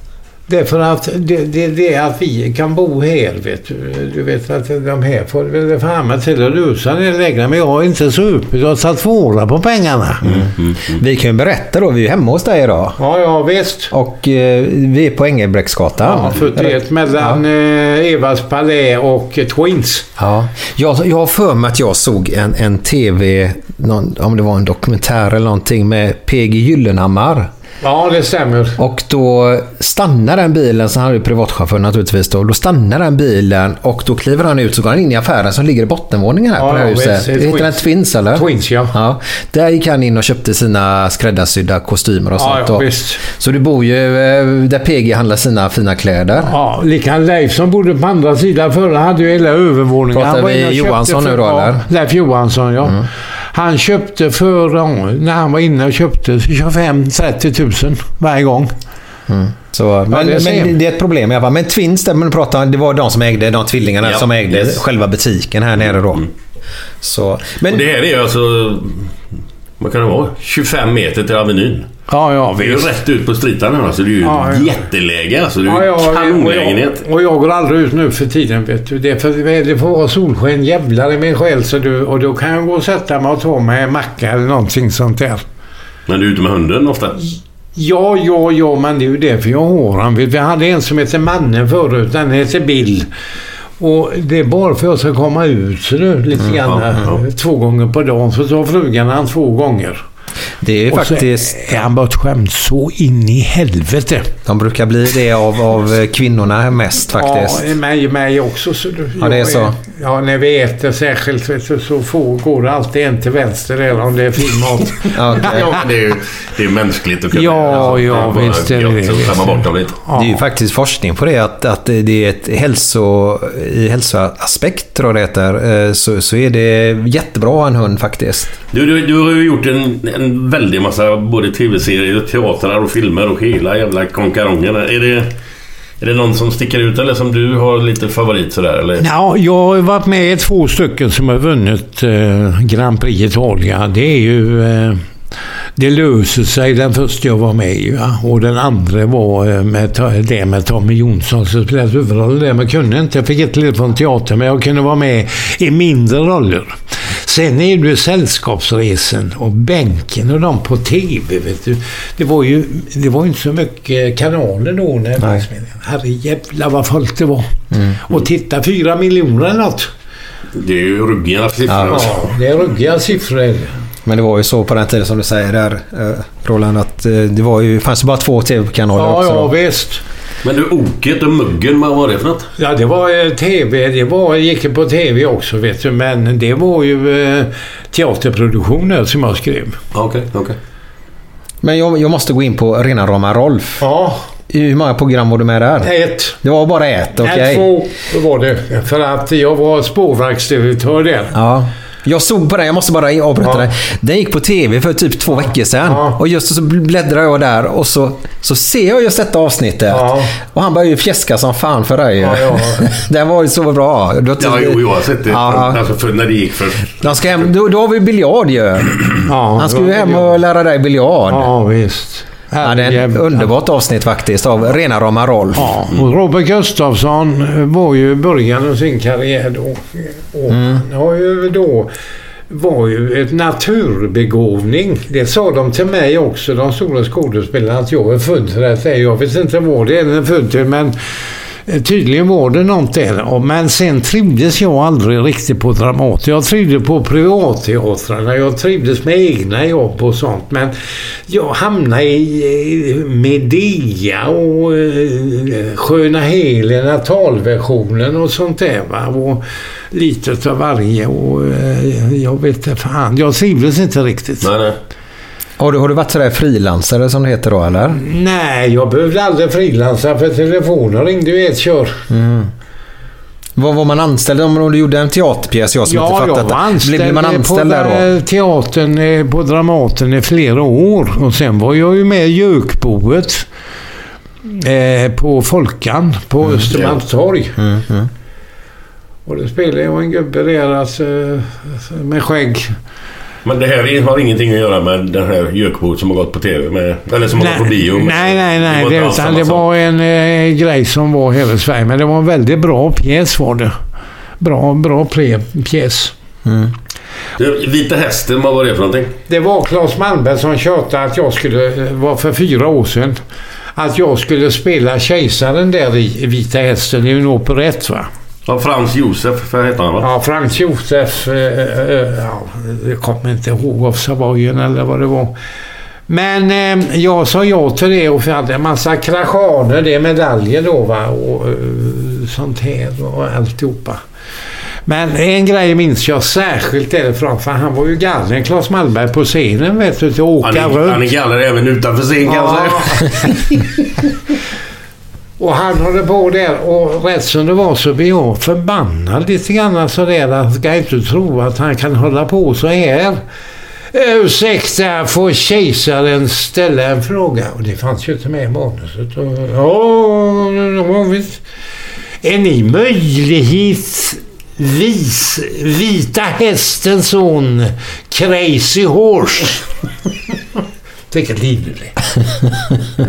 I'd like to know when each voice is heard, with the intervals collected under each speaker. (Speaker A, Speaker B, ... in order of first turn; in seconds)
Speaker A: 0.5-10.2, 13.0-13.9, 16.0-20.1, 27.8-28.8, 36.6-38.9, 42.4-43.2, 46.4-58.7, 60.1-60.7, 72.1-72.9, 74.2-74.7, 75.7-85.4, 87.8-93.1, 93.8-100.0, 100.9-104.3, 107.2-115.7, 117.3-120.4, 139.0-145.0, 145.8-167.5, 168.0-169.9, 171.9-173.8, 178.9-180.0, 182.6-189.8, 193.8-194.2, 195.8-196.4, 197.2-201.3, 203.4-203.7, 205.3-206.2, 209.9-210.3, 212.2-213.0, 219.3-220.3, 221.3-223.5, 225.6-231.9, 232.5-240.9, 241.7-264.5, 267.9-272.0, 275.9-283.5, 284.4-287.6, 289.2-292.7, 297.4-303.7, 304.4-306.1, 309.3-313.2, 313.8-318.1, 320.0-325.3, 326.1-334.0, 334.9-341.1, 342.2-343.3, 345.4-353.2, 353.9-361.4, 362.2-369.6, 371.1-372.0
Speaker B: 10.2-11.0, 64.0-64.8, 65.9-66.3, 67.7-69.1, 69.8-71.9, 72.6-77.0, 86.1-87.2, 96.7-97.2, 115.4-120.0, 128.7-135.3, 136.0-139.0, 170.5-172.3, 180.4-182.5, 189.9-190.6, 214.4-217.5, 264.4-264.8, 286.7-287.0, 293.4-299.6, 307.4-309.1, 318.4-320.1, 340.4-343.3
Speaker C: 10.2-13.0, 13.9-17.4, 20.2-27.5, 28.8-46.5, 50.1-51.9, 59.3-66.2, 67.0-67.8, 100.6-101.8, 104.5-107.6, 109.2-109.8, 115.1-115.7, 120.2-128.5, 165.2-165.4, 167.7-168.0, 171.7-172.0, 174.0-179.5, 191.6-193.8, 194.5-197.7, 201.3-215.8, 217.0-221.5, 222.6-225.7, 230.5-230.8, 265.6-268.0, 272.1-272.5, 273.6-278.1, 287.6-288.1, 306.4-306.7